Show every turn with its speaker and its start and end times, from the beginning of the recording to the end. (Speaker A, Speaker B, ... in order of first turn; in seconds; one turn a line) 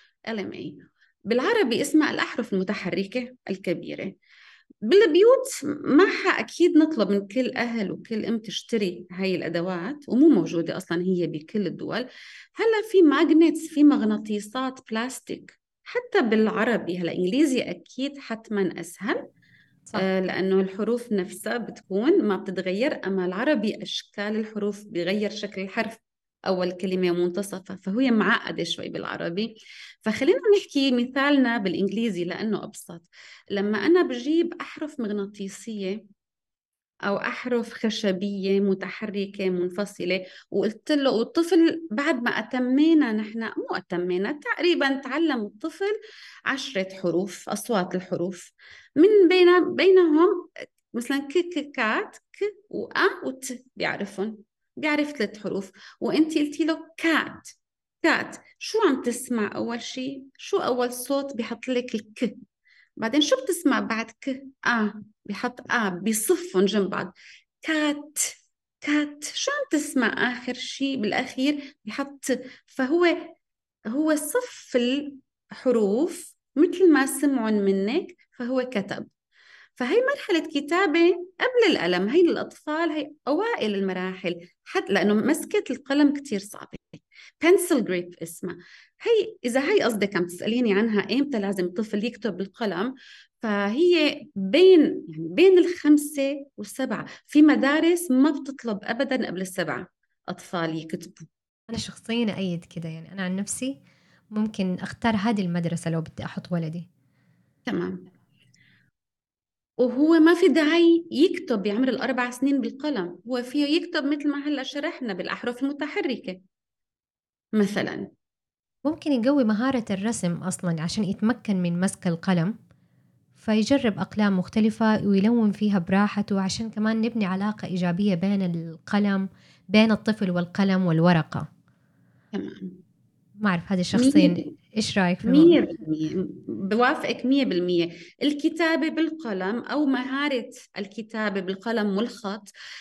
Speaker A: 0.3-0.8
Speaker A: 1.3-4.2
Speaker A: 4.8-19.2
Speaker A: 19.9-29.5
Speaker A: 30.0-36.0
Speaker A: 37.1-46.0
Speaker A: 46.5-62.3
Speaker A: 63.0-67.1
Speaker A: 67.6-73.3
Speaker A: 73.9-79.1
Speaker A: 79.8-101.3
Speaker B: 101.7-103.8
Speaker B: 104.3-106.9
Speaker A: 107.7-108.0
Speaker A: 109.8-116.4
Speaker A: 117.5-118.1
Speaker B: 118.8-122.5
Speaker B: 123.4-131.5
Speaker A: 132.3-132.8
Speaker B: 133.4-135.6
Speaker A: 133.9-134.5
Speaker A: 135.2-142.5